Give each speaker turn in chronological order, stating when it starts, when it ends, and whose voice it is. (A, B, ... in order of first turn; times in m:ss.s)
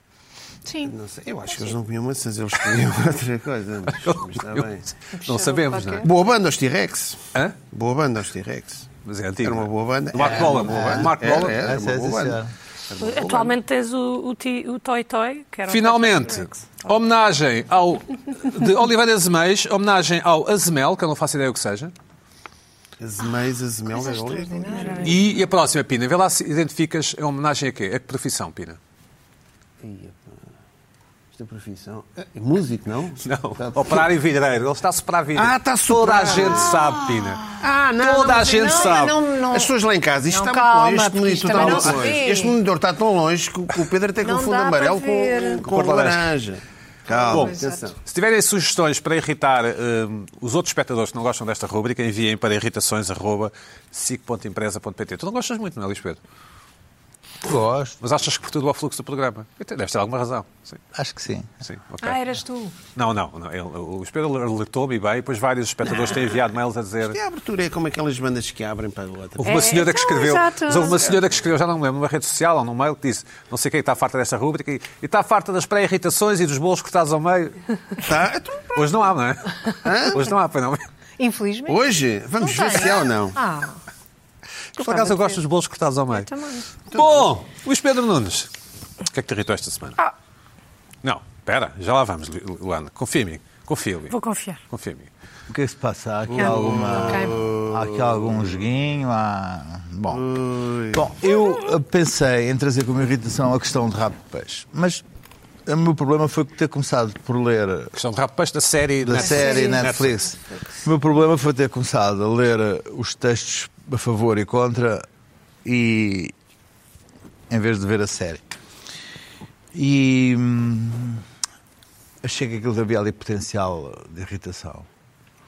0:00.6-0:00.9 A
0:00.8-0:04.8 B
0:04.0-0:06.0 C
0:05.1-0:06.1 A
0:06.0-0:08.9 B
0:09.0-0:11.6 C
0:09.4-0:12.4 B
0:10.2-0:12.5 D
0:12.9-0:13.5 B
0:13.0-0:16.6 E
0:15.7-0:21.9 C
0:23.0-0:25.1 B
0:23.9-0:25.2 A
0:25.0-0:28.8 C
0:29.8-0:30.3 B
0:31.3-0:34.1 B
0:33.2-0:39.2 C
0:35.3-0:37.0 B
0:37.5-0:48.0 B
0:38.5-0:39.7 A
0:40.3-0:42.6 A
0:41.5-0:42.1 C
0:44.2-0:45.6 A
0:45.6-0:46.3 C
0:47.1-0:47.8 A
0:47.3-0:56.2 C
0:57.4-0:58.0 D
0:58.0-1:00.8 C
1:00.9-1:01.6 D
1:01.6-1:02.2 C
1:02.0-1:02.7 A
1:02.9-1:07.2 C
1:07.0-1:09.7 B
1:09.4-1:18.0 C
1:09.4-1:11.0 A
1:11.0-1:11.2 B
1:18.0-1:18.8 B
1:18.7-1:20.8 C
1:19.8-1:20.2 B
1:21.2-1:21.8 A
1:21.7-1:23.4 B
1:22.4-1:23.8 A
1:24.8-1:26.3 C
1:24.8-1:25.4 A
1:26.1-1:26.7 A
1:26.9-1:28.5 C
1:26.9-1:27.3 B
1:29.1-1:30.0 C
1:31.0-1:34.1 C
1:34.1-1:34.6 E
1:34.7-1:35.1 C
1:35.5-1:40.2 D
1:36.3-1:38.2 B
1:36.4-1:37.4 A
1:40.1-1:41.0 B
1:40.9-1:45.0 D
1:45.6-1:47.9 D
1:47.9-1:50.2 C
1:49.0-1:55.0 D
1:49.4-1:49.8 A
1:55.6-1:56.3 D
1:57.5-1:58.6 D
1:59.7-2:01.2 D
2:02.2-2:04.9 D